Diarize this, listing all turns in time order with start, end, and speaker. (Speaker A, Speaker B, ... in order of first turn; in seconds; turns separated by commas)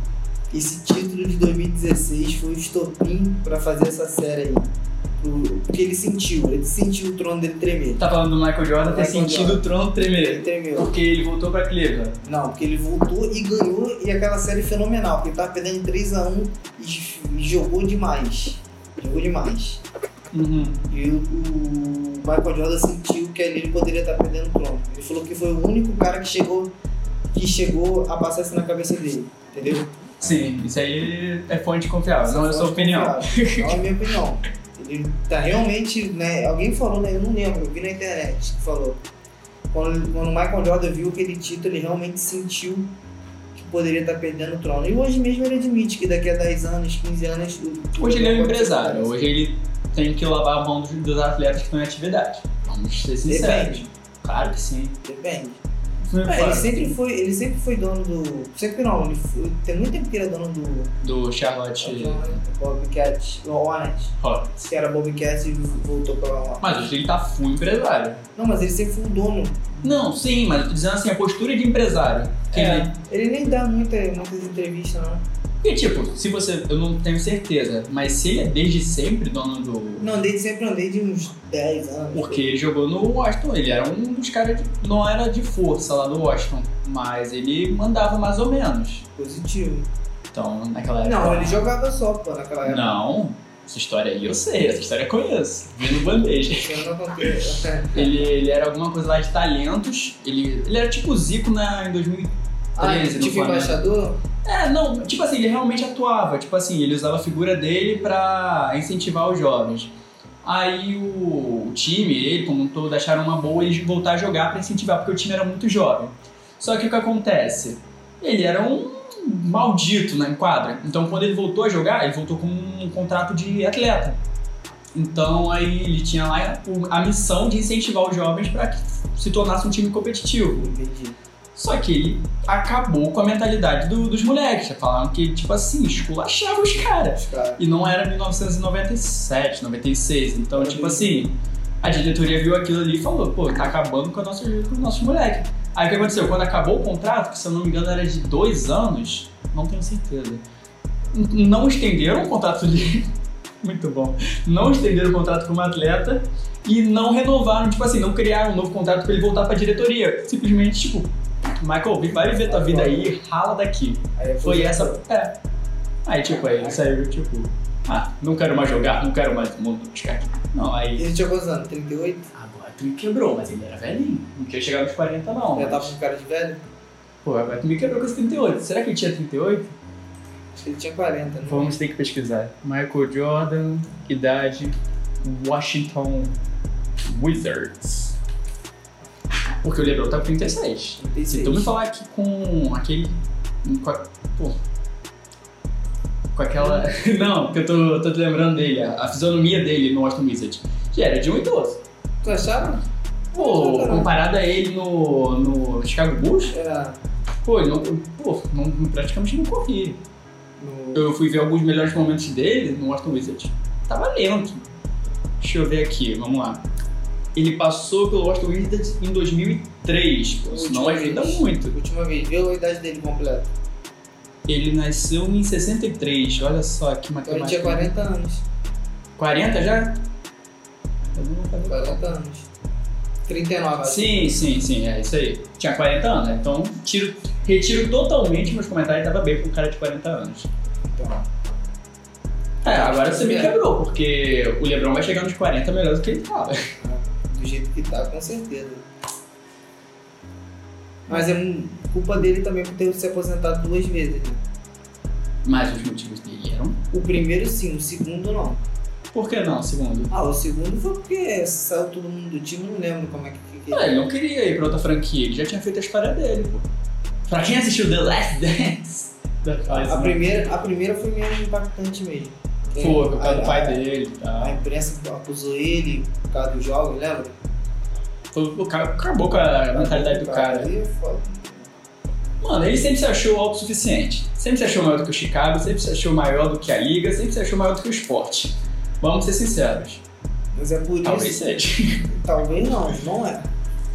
Speaker A: 0.5-8.0, Speaker B: 8.0-12.2, Speaker A: 8.8-10.9, Speaker A: 12.2-19.8, Speaker B: 20.3-20.8, Speaker A: 20.9-26.7, Speaker A: 27.3-30.4, Speaker B: 30.2-33.8, Speaker A: 32.2-39.0, Speaker A: 39.7-42.9, Speaker A: 43.5-49.1, Speaker B: 48.0-55.0, Speaker A: 53.2-53.9, Speaker A: 55.0-55.6, Speaker B: 56.1-56.9, Speaker A: 56.2-60.9, Speaker B: 61.0-62.4, Speaker A: 61.8-66.9, Speaker B: 64.2-64.5, Speaker B: 66.6-68.2, Speaker A: 68.3-70.0, Speaker B: 69.8-72.9, Speaker A: 72.5-75.2, Speaker B: 75.6-80.2, Speaker A: 80.0-82.6, Speaker B: 82.1-89.0, Speaker A: 89.2-89.9, Speaker B: 90.3-91.6, Speaker A: 91.0-93.0, Speaker B: 92.6-97.3, Speaker A: 96.1-98.1, Speaker B: 97.9-103.8, Speaker A: 102.8-104.2, Speaker B: 104.4-124.2, Speaker B: 124.9-130.7, Speaker A: 130.6-131.2, Speaker B: 131.5-150.4, Speaker A: 137.1-137.6, Speaker A: 140.6-141.2, Speaker B: 151.1-153.1, Speaker B: 153.6-165.4, Speaker A: 162.4-163.1, Speaker A: 164.2-165.0, Speaker B: 166.0-171.1, Speaker A: 166.2-166.8, Speaker A: 170.9-172.3, Speaker B: 172.3-175.9, Speaker A: 175.5-176.6, Speaker B: 177.2-179.7, Speaker A: 180.6-181.7, Speaker B: 181.5-186.4, Speaker B: 187.0-188.2, Speaker B: 189.6-194.6, Speaker A: 191.0-191.7, Speaker B: 196.3-201.8, Speaker A: 196.6-196.9, Speaker A: 202.2-204.2, Speaker B: 203.3-206.5, Speaker A: 206.5-207.0, Speaker B: 207.4-210.0, Speaker A: 210.6-211.1, Speaker B: 210.9-214.7, Speaker B: 215.4-216.6, Speaker B: 217.3-221.7, Speaker A: 220.4-223.5, Speaker B: 224.4-227.9, Speaker A: 227.2-228.4, Speaker B: 229.2-230.0, Speaker B: 231.1-232.0, Speaker A: 231.7-232.5, Speaker A: 233.3-234.3, Speaker B: 233.8-240.5, Speaker A: 240.8-241.2, Speaker B: 242.6-246.6, Speaker A: 242.6-243.6, Speaker A: 246.8-248.8, Speaker A: 251.1-254.4, Speaker B: 255.4-256.8, Speaker A: 256.9-258.6, Speaker B: 259.1-260.1, Speaker A: 260.1-264.1, Speaker B: 263.7-266.6, Speaker B: 267.3-270.3, Speaker A: 269.7-273.8, Speaker B: 272.8-274.6, Speaker A: 274.4-277.3, Speaker B: 278.3-280.7, Speaker A: 279.7-281.7, Speaker B: 282.4-290.0, Speaker A: 290.5-291.4, Speaker B: 291.0-292.0, Speaker A: 292.1-293.5